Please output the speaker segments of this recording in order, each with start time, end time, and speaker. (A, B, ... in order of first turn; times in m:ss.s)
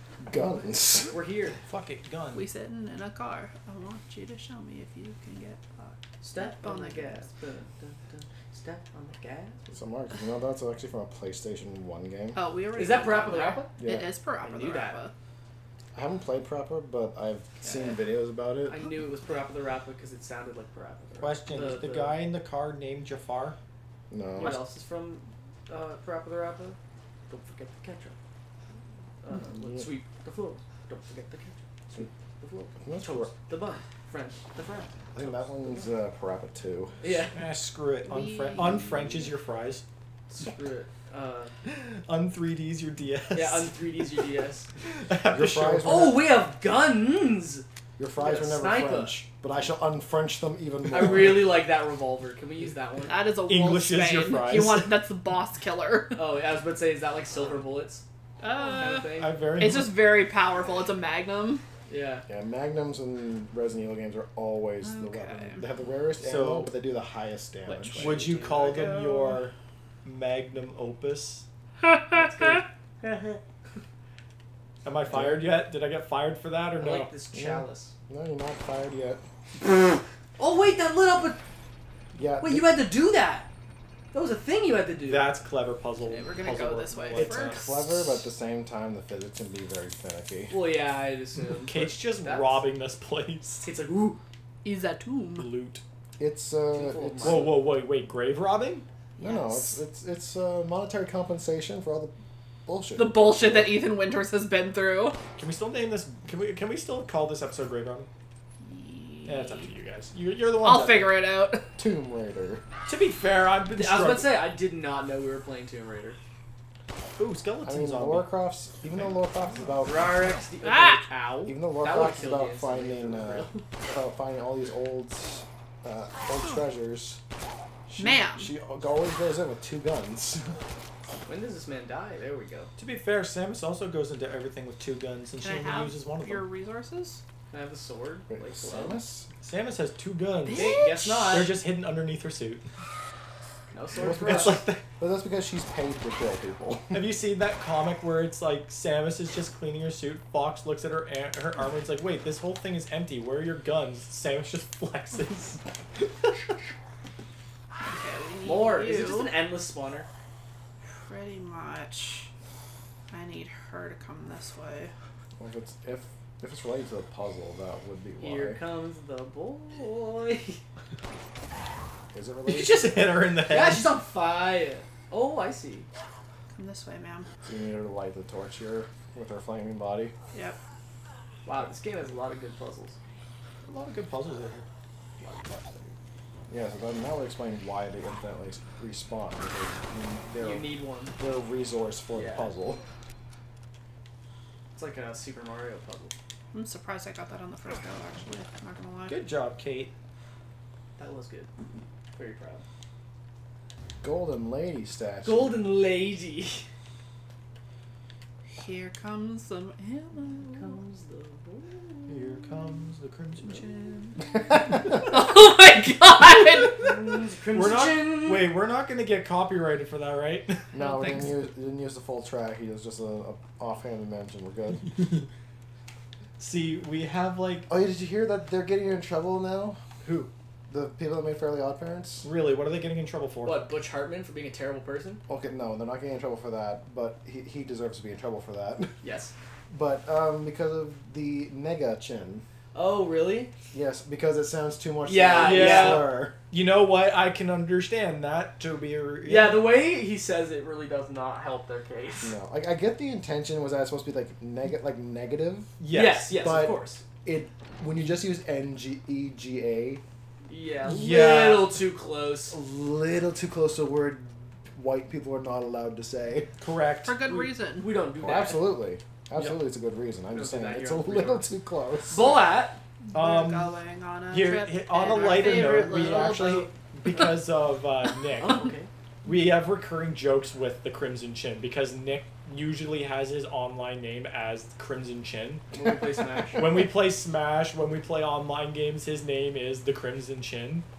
0:00.2-0:01.1 A
0:01.1-0:01.6 B
0:01.7-0:02.4 C
0:02.3-0:07.3 D
0:06.2-0:09.8 B
0:09.7-0:12.4 A
0:12.3-0:15.1 D
0:12.7-0:13.7 B
0:13.8-0:14.1 A
0:14.4-0:15.0 B
0:15.9-0:18.7 A
0:17.6-0:18.0 B
0:18.6-0:22.2 B
0:21.2-0:23.6 C
0:24.1-0:24.6 A
0:24.4-0:26.8 B
0:27.3-0:28.2 B
0:29.2-0:35.3 B
0:29.6-0:29.8 A
0:32.8-0:33.3 A
0:35.1-0:37.1 A
0:37.0-0:37.4 B
0:37.3-0:39.8 C
0:38.0-0:39.1 D
0:40.3-0:41.5 B
0:41.6-0:44.2 C
0:43.3-0:44.7 B
0:44.8-0:46.0 C
0:45.2-0:46.2 A
0:45.8-0:47.6 B
0:48.0-0:51.6 A
0:48.2-0:49.2 B
0:50.8-0:53.1 B
0:53.0-0:56.2 D
0:53.4-0:55.0 C
0:56.1-0:59.4 B
0:58.4-1:01.6 D
0:59.1-1:00.1 C
1:01.9-1:02.2 B
1:02.3-1:08.3 A
1:04.8-1:05.6 D
1:06.2-1:06.7 C
1:07.7-1:08.8 B
1:08.0-1:11.4 C
1:08.4-1:09.4 D
1:12.1-1:13.4 B
1:14.8-1:17.1 C
1:15.1-1:15.4 A
1:16.8-1:17.9 B
1:17.3-1:19.2 A
1:20.4-1:21.4 B
1:22.1-1:22.6 A
1:22.4-1:23.5 B
1:24.1-1:25.3 B
1:25.1-1:27.6 C
1:26.0-1:28.2 D
1:27.1-1:30.6 A
1:30.5-1:32.6 B
1:31.5-1:33.6 C
1:33.6-1:34.2 B
1:34.6-1:35.5 D
1:35.4-1:35.8 C
1:36.2-1:37.5 A
1:36.7-1:37.6 B
1:37.2-1:38.8 C
1:39.2-1:39.8 D
1:39.2-1:42.1 A
1:42.6-1:43.8 A
1:43.0-1:45.2 D
1:45.4-1:48.1 C
1:48.6-1:49.7 D
1:49.2-1:51.2 C
1:50.6-1:51.8 D
1:51.8-1:52.6 A
1:52.9-1:54.3 C
1:53.7-1:56.2 B
1:57.2-1:58.3 C
1:57.6-2:00.1 A
1:59.8-2:03.6 B
2:00.6-2:01.0 D
2:01.4-2:07.2 A
2:07.9-2:10.6 A
2:08.0-2:08.5 D
2:11.2-2:12.7 B
2:12.8-2:16.5 C
2:15.4-2:17.2 D
2:17.5-2:19.0 B
2:18.3-2:19.3 A
2:19.4-2:22.6 C
2:20.5-2:21.0 D
2:20.5-2:21.6 B
2:23.7-2:24.6 B
2:24.0-2:27.1 A
2:24.0-2:24.8 C
2:26.9-2:36.3 C
2:37.8-2:39.3 D
2:38.4-2:40.1 B
2:40.9-2:42.3 D
2:43.1-2:44.9 D
2:45.4-2:48.6 A
2:48.2-2:50.6 B
2:52.1-2:53.2 A
2:52.5-2:54.0 C
2:53.5-2:55.9 B
2:56.5-2:57.3 D
2:57.4-3:00.1 A
3:01.4-3:03.0 B
3:03.6-3:04.6 C
3:05.2-3:05.9 B
3:06.5-3:12.8 A
3:10.4-3:11.2 B
3:12.1-3:12.5 B
3:14.7-3:16.1 B
3:16.5-3:19.2 D
3:19.1-3:19.9 C
3:21.0-3:21.5 B
3:22.1-3:22.6 B
3:24.0-3:25.6 A
3:25.2-3:26.6 B
3:28.5-3:30.8 D
3:30.5-3:32.4 B
3:32.1-3:33.9 C
3:33.8-3:37.0 D
3:36.8-3:38.5 B
3:37.5-3:40.6 C
3:40.7-3:44.9 A
3:40.7-3:41.3 D
3:46.4-3:47.7 C
3:47.7-3:52.3 A
3:52.2-3:53.7 C
3:53.4-3:55.2 B
3:55.3-3:59.0 A
3:59.0-3:59.3 B
3:59.7-4:02.4 A
4:02.7-4:03.5 B
4:03.7-4:06.3 A
4:05.0-4:06.2 B
4:05.4-4:09.7 C
4:09.2-4:12.4 B
4:12.2-4:15.8 A
4:15.8-4:16.4 C
4:15.9-4:17.0 B
4:16.4-4:20.0 A
4:20.5-4:22.6 B
4:20.8-4:21.8 C
4:22.5-4:26.5 A
4:26.6-4:27.2 C
4:27.0-4:27.9 D
4:27.2-4:28.7 B
4:28.2-4:32.2 A
4:30.3-4:31.5 B
4:32.1-4:32.8 B
4:33.0-4:37.2 D
4:33.1-4:33.7 C
4:34.3-4:38.7 C
4:38.4-4:38.9 B
4:39.2-4:45.6 C
4:45.7-4:46.9 B
4:46.6-4:50.8 C